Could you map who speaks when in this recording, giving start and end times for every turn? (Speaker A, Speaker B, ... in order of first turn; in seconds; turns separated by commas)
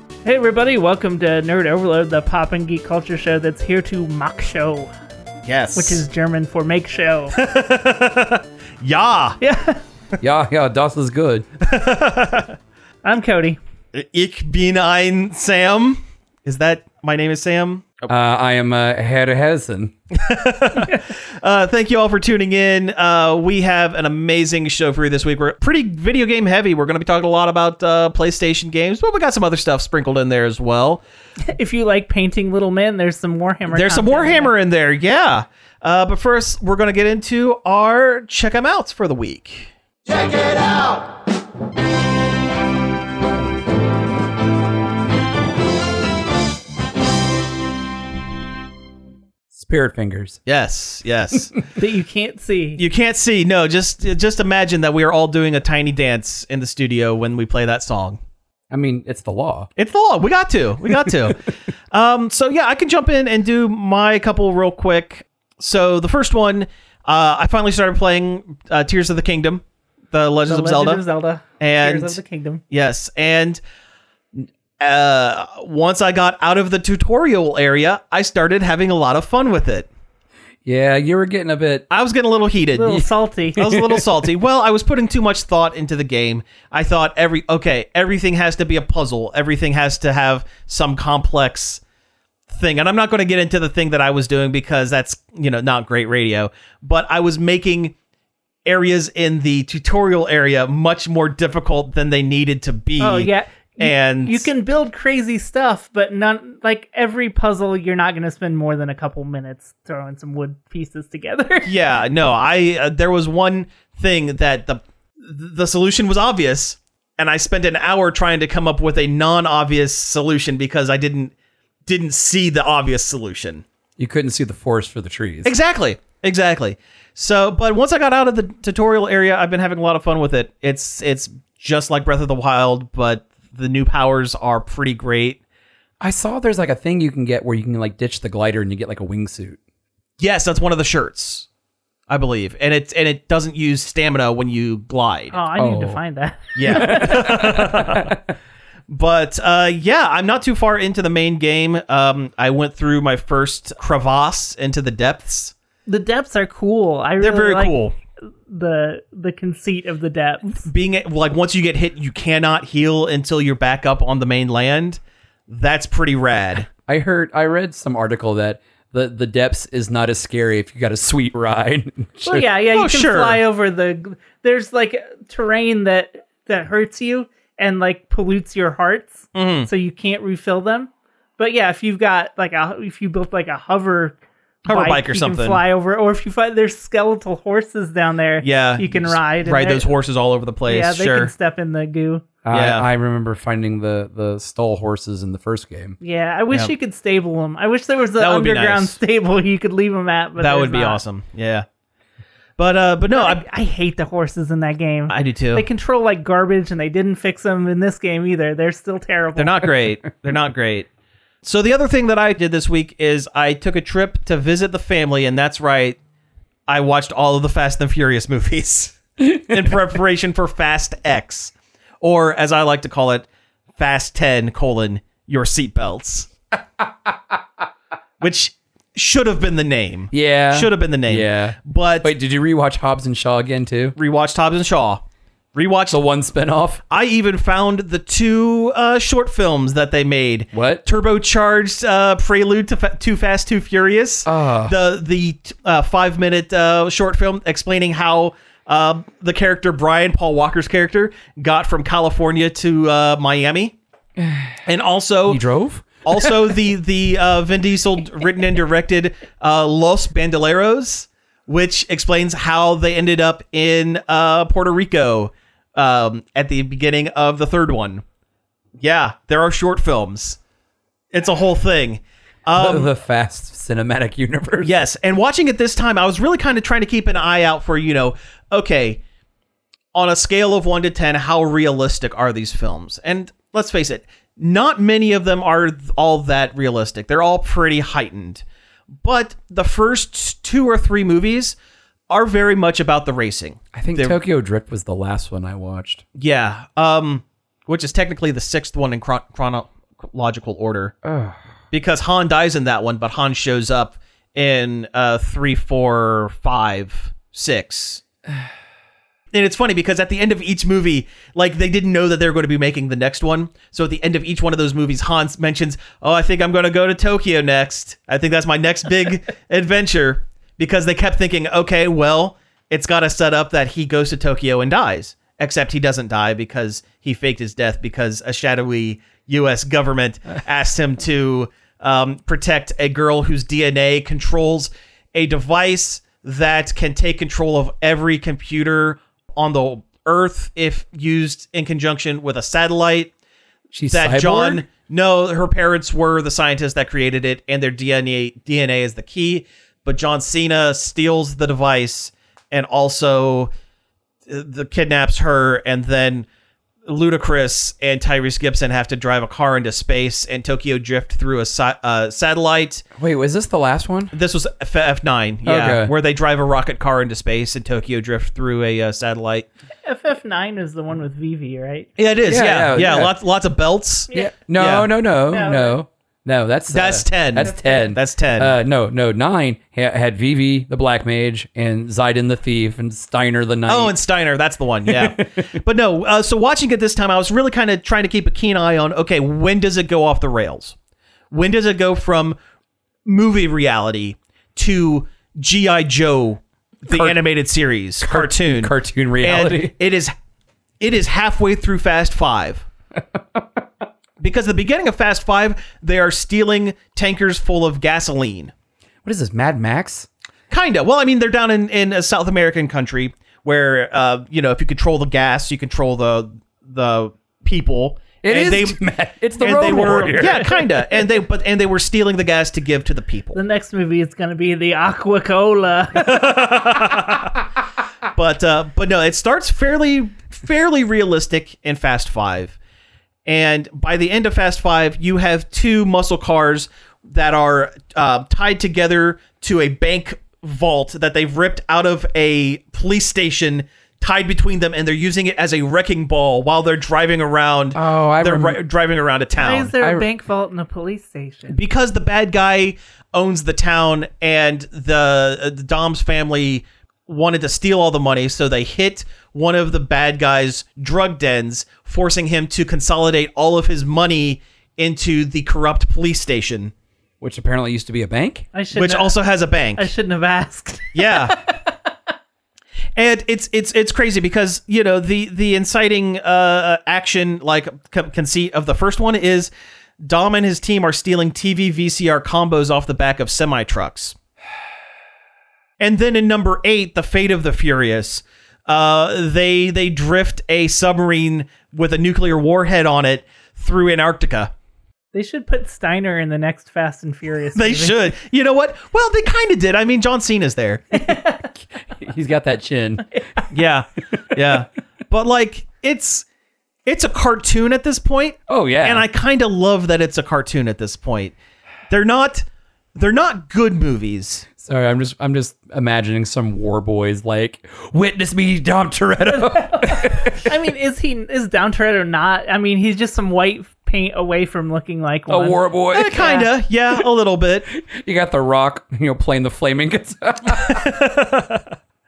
Speaker A: 0.2-4.9, Speaker B: 5.5-6.0, Speaker A: 5.7-7.3, Speaker B: 7.3-9.4, Speaker A: 9.4-9.8, Speaker C: 10.2-11.4, Speaker B: 11.6-12.6, Speaker A: 13.0-13.6, Speaker B: 13.9-18.1, Speaker C: 18.1-19.9, Speaker B: 20.1-31.0, Speaker A: 31.5-34.5, Speaker B: 33.7-39.7, Speaker C: 49.5-50.4, Speaker B: 50.5-51.6, Speaker A: 51.8-52.8, Speaker B: 52.8-58.2, Speaker C: 58.7-59.7, Speaker B: 59.8-71.0, Speaker A: 70.5-72.6, Speaker B: 71.6-72.2, Speaker B: 72.7-73.6, Speaker B: 74.8-79.9, Speaker C: 80.6-81.8, Speaker B: 81.9-83.0, Speaker A: 82.8-83.6, Speaker B: 83.5-91.8, Speaker C: 83.6-84.0, Speaker B: 92.5-97.9, Speaker B: 98.7-104.5, Speaker A: 103.0-111.7, Speaker B: 111.6-121.3, Speaker B: 121.9-123.6, Speaker C: 124.0-125.5, Speaker B: 125.4-135.4, Speaker C: 136.0-139.6, Speaker B: 140.2-141.4, Speaker B: 142.1-145.4, Speaker A: 145.3-147.6, Speaker C: 145.6-146.0, Speaker B: 146.6-148.1, Speaker C: 146.7-148.2, Speaker B: 148.9-155.5, Speaker A: 155.9-157.8, Speaker B: 157.2-157.9, Speaker A: 158.5-160.6, Speaker B: 160.5-166.7, Speaker C: 166.9-172.4, Speaker A: 172.2-189.9, Speaker B: 172.7-173.4, Speaker B: 179.3-179.7, Speaker B: 184.7-185.6, Speaker B: 188.4-191.3, Speaker A: 190.7-192.2, Speaker C: 192.4-196.0, Speaker B: 192.5-192.8, Speaker A: 196.0-201.0, Speaker B: 198.2-199.0, Speaker B: 200.4-201.7, Speaker B: 202.6-203.4, Speaker A: 203.1-209.7, Speaker B: 205.1-205.6, Speaker B: 209.3-210.9, Speaker B: 211.4-216.0, Speaker B: 216.7-223.3, Speaker B: 223.8-226.3, Speaker B: 228.2-232.1, Speaker C: 230.1-233.9, Speaker B: 234.0-235.0, Speaker B: 235.5-236.0, Speaker C: 235.9-236.8, Speaker B: 236.9-253.7, Speaker C: 240.5-240.8, Speaker C: 244.2-244.7, Speaker C: 254.2-254.6, Speaker B: 254.6-255.4, Speaker C: 255.3-256.3, Speaker B: 256.0-268.0, Speaker B: 268.8-270.4, Speaker B: 271.1-272.9, Speaker C: 272.5-274.8, Speaker B: 274.6-279.0, Speaker B: 279.9-288.4, Speaker B: 289.0-291.5, Speaker B: 292.1-294.2, Speaker C: 293.7-296.0, Speaker B: 296.1-300.9, Speaker C: 301.0-301.4, Speaker B: 301.7-308.0, Speaker B: 309.3-343.1, Speaker C: 343.7-344.6, Speaker B: 343.9-353.5, Speaker B: 354.3-356.2, Speaker B: 356.9-362.8, Speaker C: 363.0-364.1, Speaker B: 364.1-369.5, Speaker C: 365.4-365.9, Speaker A: 369.8-371.9, Speaker B: 372.0-374.9, Speaker C: 372.3-373.1, Speaker C: 374.1-383.9, Speaker A: 375.3-375.8, Speaker B: 376.7-378.5, Speaker A: 377.4-377.8, Speaker B: 383.7-390.7, Speaker C: 384.9-385.4, Speaker B: 391.3-392.4, Speaker B: 393.1-400.1, Speaker C: 396.9-397.1, Speaker C: 398.0-399.7, Speaker B: 400.8-402.6, Speaker B: 404.2-408.5, Speaker C: 409.0-410.1, Speaker B: 410.5-418.8, Speaker C: 418.2-421.1, Speaker B: 419.4-423.4, Speaker A: 423.3-426.4, Speaker B: 425.9-427.4, Speaker B: 428.1-432.6, Speaker B: 433.2-449.7, Speaker C: 447.7-448.6, Speaker A: 449.4-451.6, Speaker C: 449.8-450.0, Speaker B: 451.5-466.7, Speaker C: 467.2-468.5, Speaker A: 468.5-469.1, Speaker B: 468.7-469.9, Speaker A: 469.8-471.3, Speaker B: 470.9-471.4, Speaker B: 472.9-479.5, Speaker B: 480.0-484.1, Speaker B: 485.8-494.5, Speaker A: 495.1-498.1, Speaker B: 497.5-501.0, Speaker A: 500.9-501.5, Speaker C: 501.6-503.1, Speaker A: 503.1-503.4, Speaker B: 503.5-506.2, Speaker B: 506.9-511.3, Speaker C: 508.5-509.1, Speaker B: 511.9-512.4, Speaker B: 513.0-514.5, Speaker C: 514.6-520.5, Speaker A: 519.3-525.6, Speaker C: 525.3-526.2, Speaker B: 525.9-527.7, Speaker A: 526.1-526.5, Speaker C: 527.7-530.9, Speaker B: 530.6-531.6